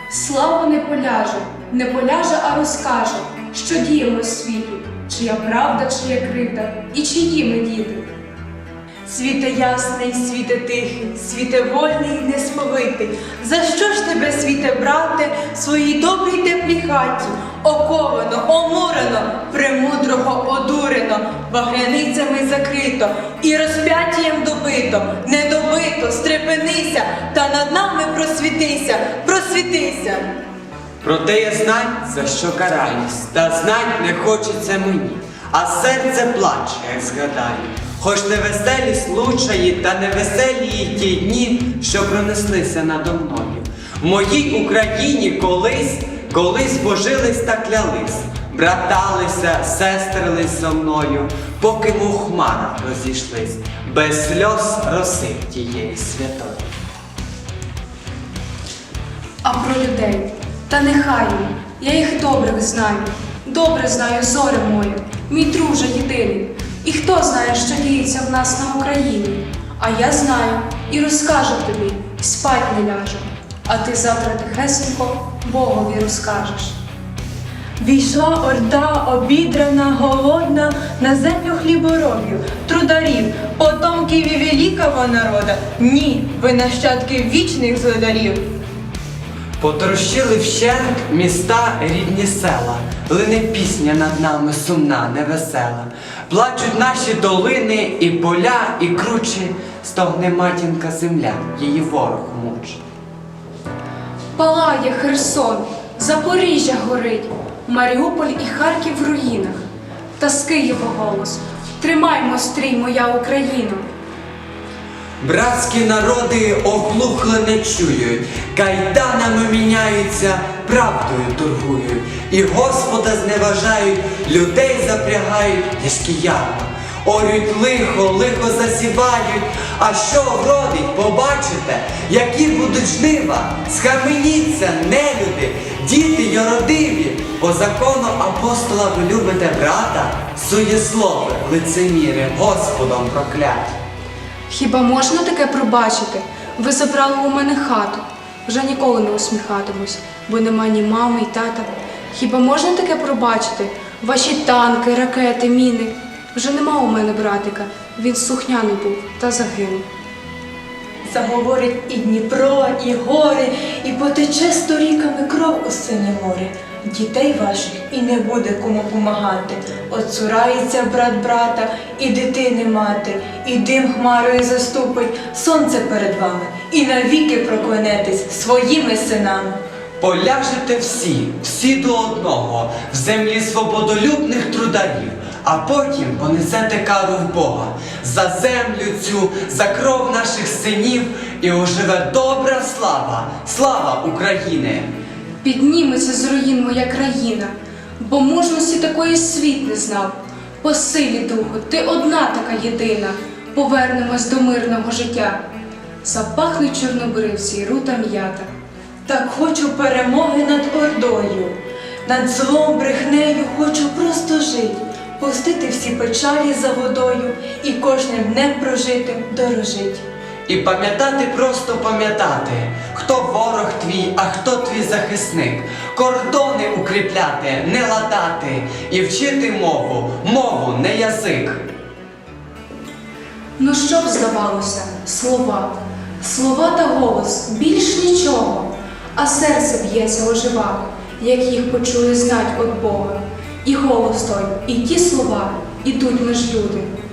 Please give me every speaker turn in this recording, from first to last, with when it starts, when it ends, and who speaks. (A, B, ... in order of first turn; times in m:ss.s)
0:00.1-0:08.0 A
0:09.0-0:30.3 B
0:31.0-0:56.6 C
0:59.4-1:16.8 A
1:17.8-1:28.4 B
1:29.6-1:42.8 C
1:44.3-1:49.6 A
1:50.2-1:53.8 A
1:55.2-2:23.7 C
2:24.5-2:39.8 A
2:41.1-2:59.6 B
3:00.0-3:14.9 C
3:15.4-3:25.4 A
3:26.0-3:28.5 A
3:29.0-3:40.0 B
3:40.4-3:51.6 C
3:53.6-4:06.9 A